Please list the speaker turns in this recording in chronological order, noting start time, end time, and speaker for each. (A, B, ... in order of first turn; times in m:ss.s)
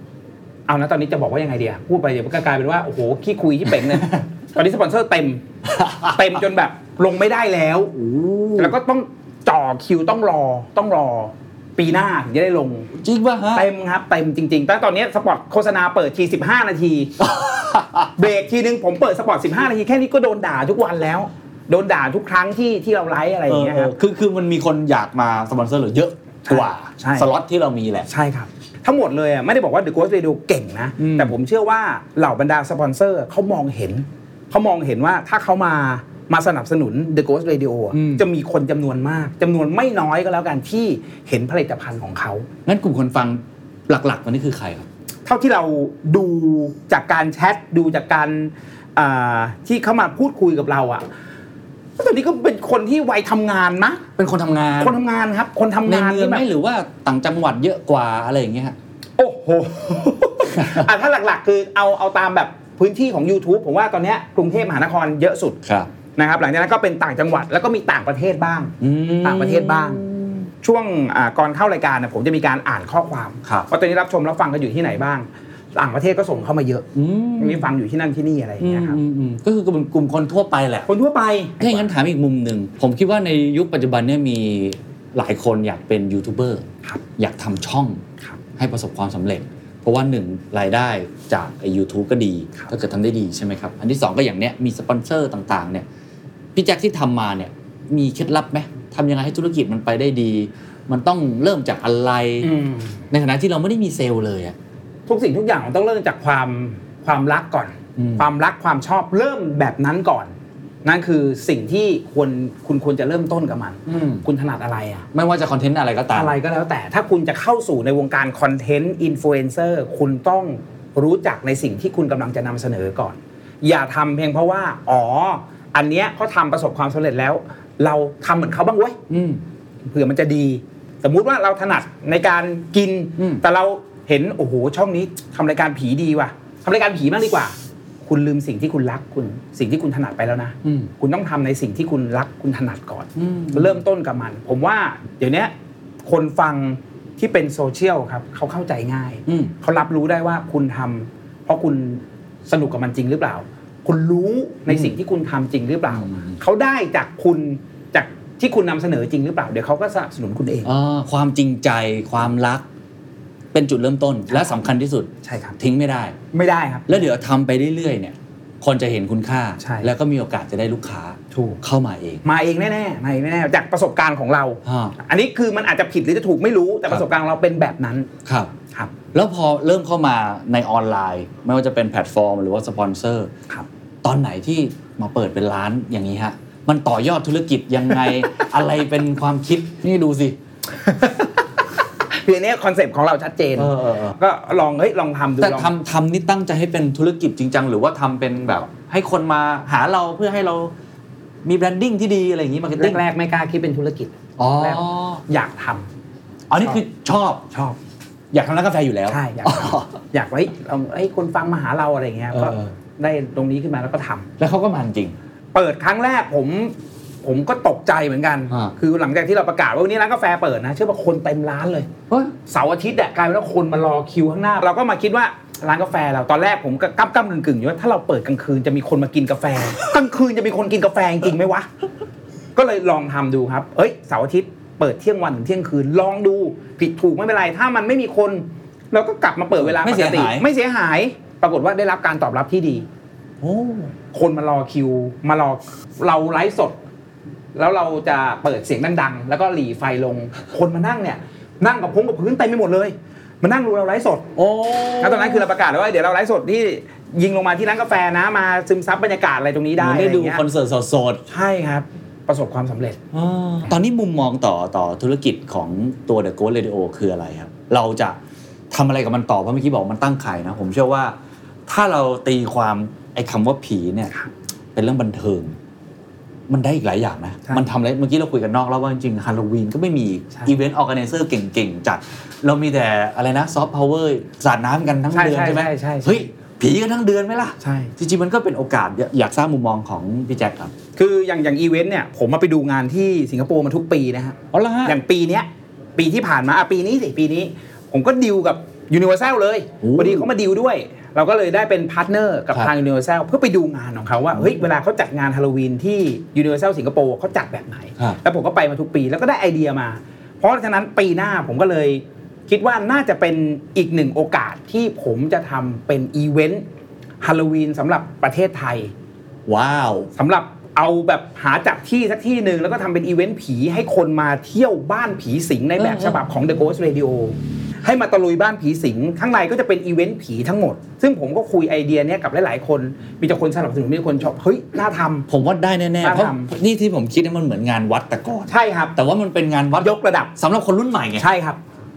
0:00.7-0:05.4 A
0:05.7-0:06.2 B
0:06.1-0:08.0 A
0:08.0-0:08.8 B
0:08.6-0:12.9 A
0:13.0-0:13.7 B
0:13.5-0:17.2 A
0:17.2-0:18.1 B
0:18.2-0:23.9 A
0:23.5-0:28.1 B
0:26.5-0:27.3 A
0:28.1-0:42.5 A
0:31.0-0:31.3 B
0:37.9-0:38.2 B
0:42.7-0:44.9 B
0:45.3-0:51.0 A
0:52.0-0:54.0 A
0:54.2-0:55.0 B
0:54.8-0:56.4 A
0:55.9-0:58.8 B
0:59.2-1:05.6 A
1:00.6-1:00.9 B
1:05.6-1:05.9 B
1:06.2-1:10.0 A
1:08.8-1:10.5 B
1:10.6-1:16.9 A
1:17.0-1:17.7 B
1:17.4-1:19.0 A
1:18.6-1:20.9 B
1:20.9-1:21.9 A
1:21.6-1:26.7 B
1:27.2-1:28.0 B
1:28.6-1:35.9 B
1:36.6-1:42.5 B
1:42.4-1:43.0 A
1:43.1-1:44.6 B
1:45.1-1:50.3 A
1:48.0-1:48.3 B
1:50.8-1:55.1 A
1:53.9-1:54.2 B
1:55.1-1:56.4 B
1:56.1-2:09.0 A
2:09.1-2:09.4 B
2:09.8-2:17.6 A
2:13.2-2:13.4 B
2:18.1-2:25.5 A
2:20.6-2:20.9 B
2:23.2-2:23.8 B
2:26.0-2:40.7 A
2:29.3-2:29.5 B
2:34.7-2:34.9 B
2:35.9-2:36.4 B
2:40.6-2:42.6 B
2:43.5-2:46.2 B
2:45.2-2:45.6 A
2:46.3-2:47.0 A
2:46.9-2:52.2 B
2:49.6-2:49.9 A
2:51.3-2:51.6 A
2:52.2-2:58.1 A
2:54.6-2:55.0 B
2:58.2-2:58.5 B
2:59.1-3:03.3 B
3:04.0-3:10.4 B
3:10.9-3:11.3 A
3:12.1-3:15.7 A
3:13.6-3:14.2 B
3:15.4-3:20.7 B
3:21.4-3:23.0 B
3:22.8-3:25.9 A
3:24.4-3:25.2 B
3:26.5-3:27.5 B
3:27.5-3:27.8 A
3:28.3-3:30.0 B
3:29.1-3:34.3 A
3:32.3-3:32.7 B
3:34.4-3:35.2 B
3:35.5-3:41.9 A
3:42.5-3:51.7 A
3:52.6-4:02.8 A
3:59.6-4:00.5 B
4:03.4-4:03.9 B
4:04.1-4:06.8 A
4:07.6-4:14.3 A
4:14.4-4:15.5 B
4:15.0-4:20.4 A
4:19.8-4:21.2 B
4:21.3-4:23.0 A
4:23.1-4:28.2 B
4:28.7-4:31.2 B
4:31.7-4:34.1 B
4:34.8-4:35.6 B
4:36.5-4:50.7 B
4:45.1-4:46.3 A
4:47.6-4:47.9 A
4:51.0-5:16.6 A
4:54.5-4:55.0 B
4:59.8-5:00.3 B
5:04.3-5:04.6 B
5:17.2-5:18.9 A
5:19.5-5:20.1 B
5:20.2-5:35.3 A
5:25.8-5:26.2 B
5:35.3-5:41.3 B
5:36.0-5:36.5 A
5:38.5-5:39.0 A
5:39.8-5:40.3 A
5:41.2-5:41.6 A